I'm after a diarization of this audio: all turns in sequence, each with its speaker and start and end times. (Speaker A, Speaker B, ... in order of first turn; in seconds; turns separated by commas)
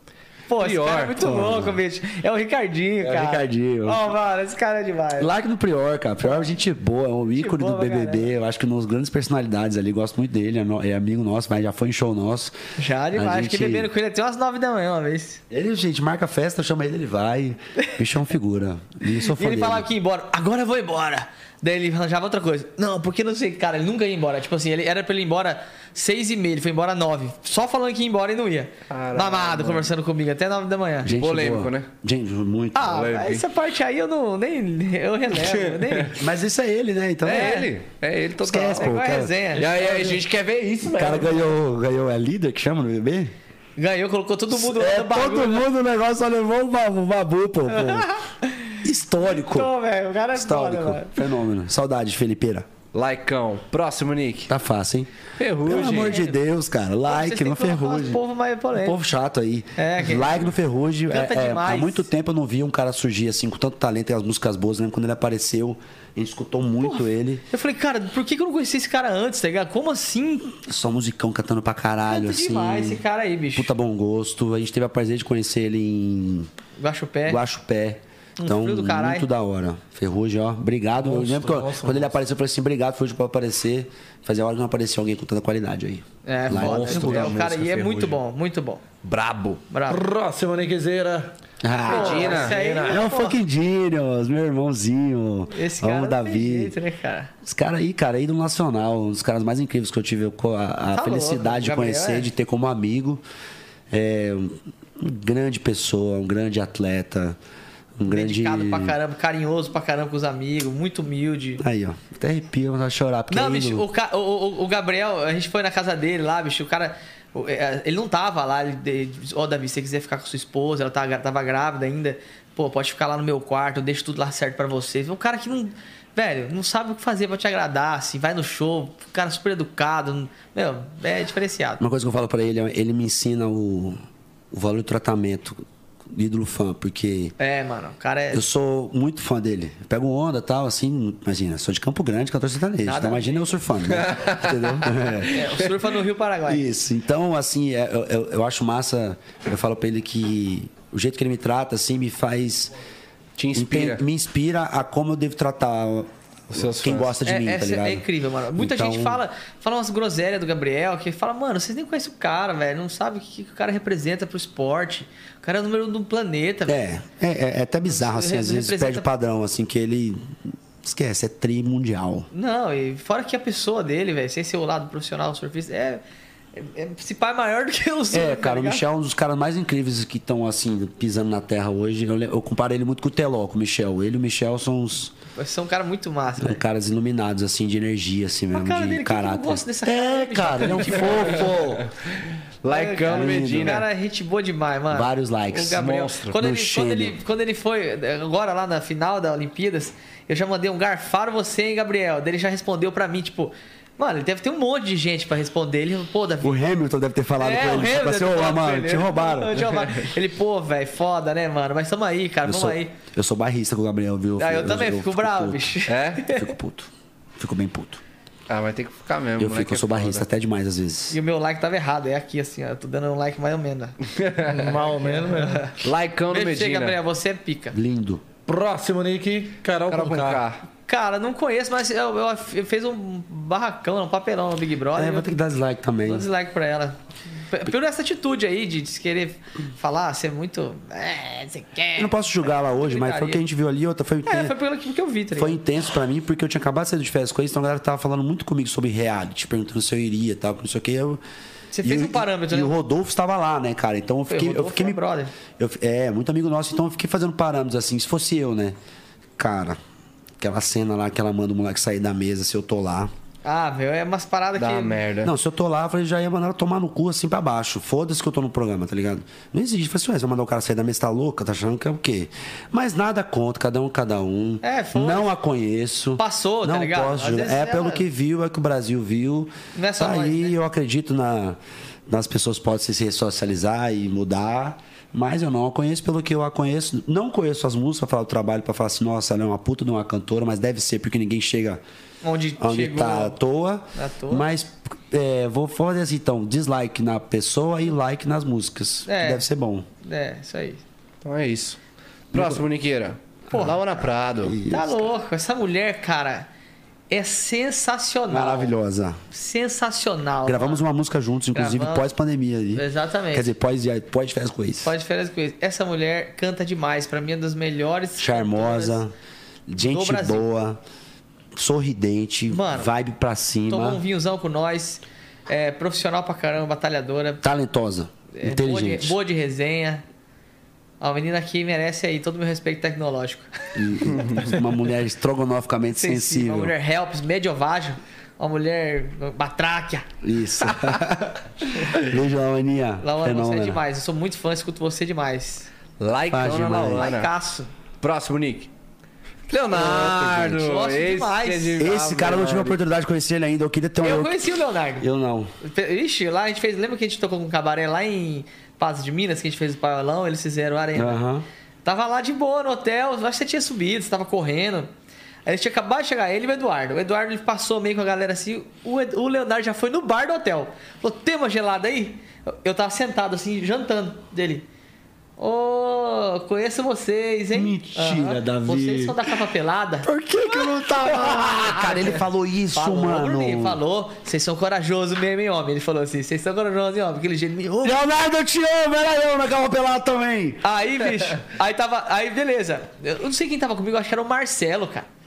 Speaker A: 0.5-5.3, Speaker B: 0.6-1.2, Speaker C: 1.2-1.8, Speaker C: 3.0-4.1, Speaker C: 5.2-12.5, Speaker A: 6.2-6.5, Speaker A: 7.3-8.3, Speaker A: 12.8-15.4, Speaker C: 13.1-13.9, Speaker C: 15.5-19.9, Speaker A: 19.2-31.1, Speaker B: 28.9-29.9, Speaker C: 31.0-32.9, Speaker B: 31.1-31.9, Speaker A: 32.8-36.2, Speaker B: 32.8-33.4, Speaker B: 35.3-36.2, Speaker C: 36.1-37.6, Speaker B: 37.2-38.9, Speaker A: 37.3-37.7, Speaker C: 38.4-39.3, Speaker A: 38.6-40.1, Speaker B: 39.5-41.5, Speaker D: 39.7-40.1, Speaker C: 40.9-43.3, Speaker A: 43.8-45.7, Speaker C: 44.5-48.1, Speaker A: 47.7-51.2, Speaker C: 48.8-49.7, Speaker C: 50.3-52.7, Speaker B: 52.9-54.5, Speaker C: 54.5-55.1, Speaker B: 55.4-56.2, Speaker C: 55.6-58.2, Speaker A: 55.8-56.4, Speaker A: 57.1-59.0, Speaker C: 58.8-67.4, Speaker A: 59.8-60.5, Speaker A: 61.1-62.1, Speaker A: 66.8-70.6, Speaker C: 70.6-73.0, Speaker A: 72.1-73.7, Speaker C: 73.5-76.5, Speaker A: 76.8-77.4, Speaker C: 77.3-87.4, Speaker A: 78.4-79.3, Speaker D: 81.0-82.2, Speaker A: 86.2-88.8, Speaker B: 86.5-88.2, Speaker B: 89.0-89.6, Speaker A: 89.7-90.0, Speaker D: 89.9-91.3, Speaker C: 91.6-96.7, Speaker A: 91.8-93.4, Speaker B: 91.9-92.6, Speaker D: 91.9-93.1, Speaker A: 95.5-97.3, Speaker C: 97.4-103.2, Speaker A: 100.9-102.3, Speaker C: 103.9-107.4, Speaker C: 108.0-109.0, Speaker A: 108.1-111.6, Speaker C: 111.6-113.9, Speaker A: 113.3-131.8, Speaker C: 131.8-134.0, Speaker C: 134.5-137.3, Speaker A: 137.4-138.4, Speaker C: 138.3-145.5, Speaker A: 142.8-143.6, Speaker B: 143.9-144.9, Speaker A: 145.2-146.7, Speaker C: 146.5-152.7, Speaker B: 153.4-154.0, Speaker C: 153.5-158.0, Speaker B: 156.5-157.2, Speaker A: 157.2-166.8, Speaker C: 158.6-159.2, Speaker C: 166.7-172.3, Speaker A: 167.8-169.1, Speaker A: 172.3-176.0, Speaker A: 176.5-178.8, Speaker C: 178.1-185.1, Speaker A: 185.4-186.6, Speaker C: 186.4-191.9, Speaker A: 188.5-191.6, Speaker B: 192.6-193.8, Speaker A: 192.7-206.6, Speaker C: 193.0-193.8, Speaker C: 194.9-197.2, Speaker B: 195.7-196.4, Speaker C: 206.4-209.7, Speaker A: 207.4-212.9, Speaker C: 212.4-215.8, Speaker A: 214.4-216.5, Speaker B: 215.9-216.3, Speaker C: 216.3-218.0, Speaker B: 218.5-220.3, Speaker C: 219.4-221.2, Speaker A: 221.1-224.0, Speaker B: 224.2-224.6, Speaker D: 224.4-225.7, Speaker A: 225.0-227.8, Speaker B: 225.8-227.0, Speaker C: 227.7-228.2, Speaker D: 228.5-230.4, Speaker B: 229.9-230.6, Speaker A: 230.9-235.4, Speaker C: 234.9-236.3, Speaker A: 236.1-243.4, Speaker C: 242.0-244.5, Speaker A: 244.2-245.6, Speaker C: 245.3-251.2, Speaker A: 251.7-252.8, Speaker C: 251.8-255.0, Speaker A: 254.3-255.3, Speaker C: 255.6-258.8, Speaker C: 259.4-259.8, Speaker C: 260.4-263.1, Speaker A: 263.4-265.0, Speaker B: 264.6-265.3, Speaker C: 265.2-291.8, Speaker A: 274.6-275.3, Speaker A: 276.2-278.0, Speaker A: 279.8-280.6, Speaker A: 292.2-293.4, Speaker C: 292.6-299.9, Speaker A: 293.9-294.5, Speaker A: 299.1-299.5, Speaker A: 300.0-300.8, Speaker B: 301.2-301.8, Speaker C: 302.3-302.7, Speaker B: 302.3-304.6, Speaker A: 303.5-304.1, Speaker C: 304.4-305.0, Speaker A: 304.7-306.5, Speaker A: 307.1-308.7, Speaker C: 308.3-309.2, Speaker A: 309.3-310.8, Speaker C: 310.4-314.9, Speaker A: 311.5-312.1, Speaker A: 312.7-313.5, Speaker A: 314.8-319.0, Speaker C: 318.2-319.1, Speaker C: 319.7-320.8, Speaker A: 319.8-320.5, Speaker C: 321.6-324.0, Speaker A: 322.5-322.9, Speaker A: 323.7-327.4, Speaker C: 327.4-329.2, Speaker A: 328.3-330.0, Speaker A: 331.0-334.6, Speaker C: 333.8-336.7, Speaker A: 335.9-341.0, Speaker C: 340.2-343.8, Speaker A: 343.0-345.7, Speaker B: 346.0-347.3, Speaker C: 346.3-347.1, Speaker A: 346.9-347.7, Speaker B: 348.0-348.7, Speaker B: 349.5-352.8, Speaker C: 349.8-350.6, Speaker A: 349.8-351.8, Speaker C: 351.8-354.3, Speaker A: 354.0-355.1, Speaker C: 355.0-355.5, Speaker A: 355.6-361.2, Speaker C: 360.9-361.5, Speaker A: 361.9-364.9, Speaker A: 365.5-374.7, Speaker A: 375.4-382.2, Speaker C: 377.5-379.3, Speaker C: 380.0-383.8, Speaker A: 382.7-388.0, Speaker C: 387.8-390.6, Speaker A: 390.6-395.1